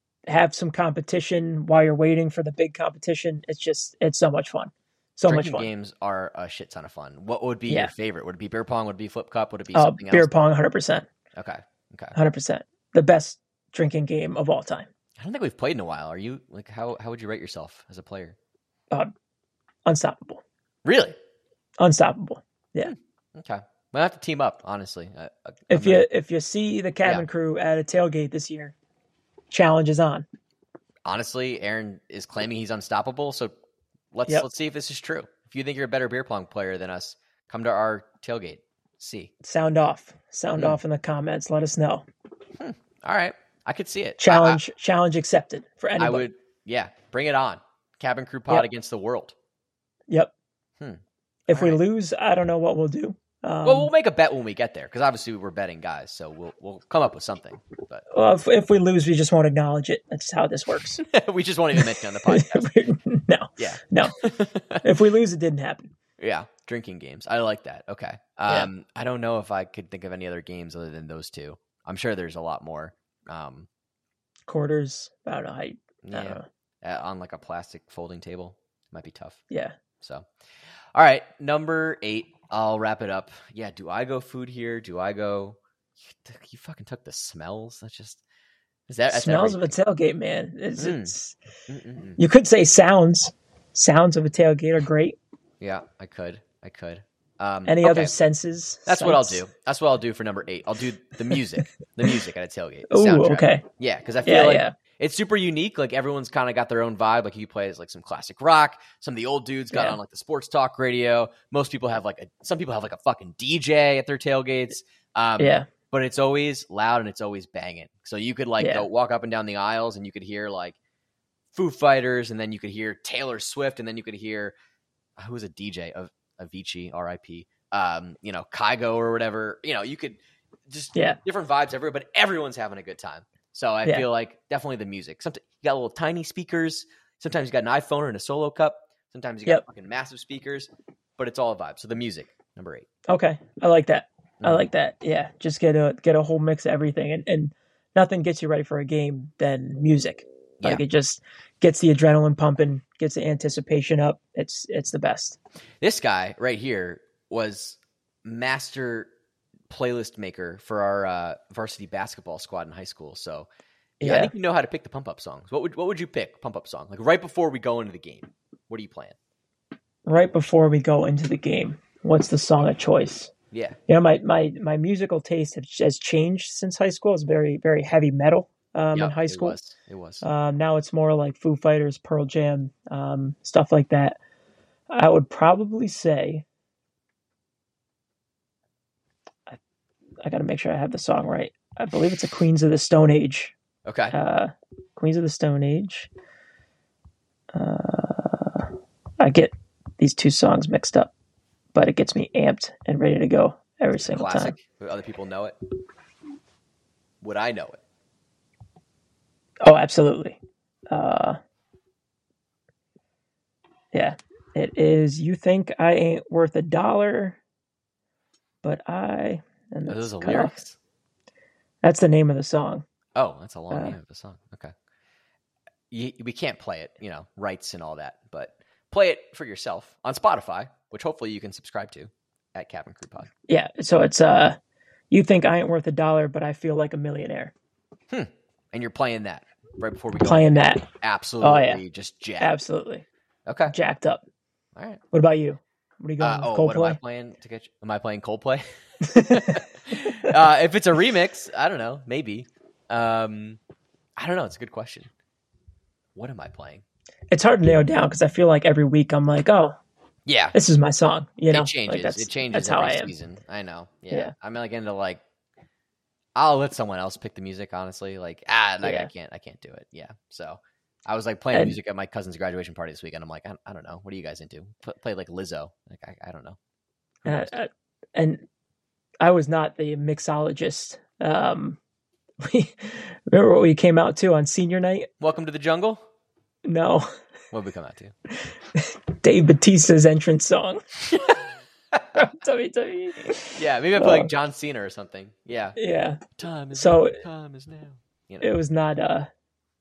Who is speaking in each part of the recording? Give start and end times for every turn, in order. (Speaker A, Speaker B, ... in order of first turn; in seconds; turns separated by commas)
Speaker A: 0.3-5.7, Speaker B: 5.2-10.3, Speaker A: 9.7-11.1, Speaker B: 11.3-12.1, Speaker A: 12.1-14.9, Speaker B: 15.2-18.4, Speaker A: 19.9-20.4, Speaker B: 20.8-21.1, Speaker A: 21.8-22.9, Speaker B: 22.8-26.1, Speaker A: 25.7-28.7, Speaker A: 29.5-30.2, Speaker B: 31.0-33.5, Speaker B: 34.1-39.3, Speaker A: 39.4-42.0, Speaker B: 42.6-44.6, Speaker A: 44.2-46.3, Speaker B: 46.0-49.3, Speaker B: 50.8-51.8, Speaker A: 51.5-53.9, Speaker B: 53.6-58.0, Speaker A: 58.1-61.0, Speaker B: 61.0-62.7, Speaker A: 61.8-64.2, Speaker B: 63.6-64.8, Speaker A: 64.8-65.9, Speaker B: 66.2-73.7, Speaker A: 74.5-76.4, Speaker B: 76.0-79.4, Speaker A: 79.5-79.8, Speaker B: 80.0-80.3, Speaker B: 80.9-88.2, Speaker B: 88.9-89.7, Speaker A: 89.1-91.3, Speaker B: 90.8-91.1, Speaker B: 91.7-92.2, Speaker A: 92.2-95.2, Speaker B: 95.6-98.1, Speaker A: 97.7-99.4, Speaker B: 98.8-120.8, Speaker A: 102.9-103.6, Speaker A: 104.2-104.7, Speaker A: 115.4-115.7, Speaker A: 118.6-118.9, Speaker B: 121.5-124.5, Speaker B: 125.2-142.9, Speaker A: 143.1-155.4, Speaker B: 144.4-144.7, Speaker B: 155.8-159.1, Speaker B: 159.7-163.5, Speaker B: 164.0-169.2, Speaker A: 164.0-164.3, Speaker A: 170.1-173.3, Speaker B: 173.5-173.8, Speaker A: 173.9-179.6, Speaker B: 178.9-180.2, Speaker A: 180.2-184.2, Speaker A: 184.9-186.4, Speaker A: 190.2-193.5, Speaker B: 193.8-194.1, Speaker A: 194.1-196.1, Speaker A: 197.5-201.1, Speaker A: 201.7-204.5, Speaker B: 203.9-205.6, Speaker B: 207.2-207.8, Speaker A: 209.6-210.4, Speaker A: 210.9-211.4, Speaker A: 213.9-217.4, Speaker A: 218.6-220.6, Speaker B: 219.9-220.8, Speaker A: 221.8-222.8, Speaker B: 223.1-224.7, Speaker A: 223.7-223.9, Speaker B: 225.9-233.3, Speaker A: 233.5-234.6, Speaker A: 235.1-237.5, Speaker B: 238.1-242.5, Speaker A: 240.2-240.9, Speaker A: 241.4-241.8, Speaker A: 242.4-243.1, Speaker B: 243.4-243.7, Speaker A: 243.7-244.2, Speaker B: 244.7-245.0, Speaker A: 245.1-247.0, Speaker B: 246.2-248.6, Speaker A: 249.0-249.6, Speaker B: 249.1-253.6, Speaker B: 254.2-255.1, Speaker B: 256.1-256.8, Speaker A: 257.3-259.8, Speaker B: 260.2-260.5, Speaker A: 260.5-263.1, Speaker B: 261.5-265.2, Speaker B: 266.4-276.6, Speaker A: 268.8-269.1, Speaker B: 277.2-277.5, Speaker A: 277.2-278.4, Speaker A: 279.2-281.8, Speaker A: 282.4-285.1, Speaker B: 285.2-286.0, Speaker A: 286.6-287.1, Speaker B: 287.5-288.1, Speaker A: 288.7-291.3, Speaker B: 291.9-292.2, Speaker A: 292.1-294.3, Speaker B: 293.6-295.8, Speaker A: 295.8-296.2, Speaker B: 296.3-298.5, Speaker A: 296.7-297.2, Speaker A: 298.4-299.3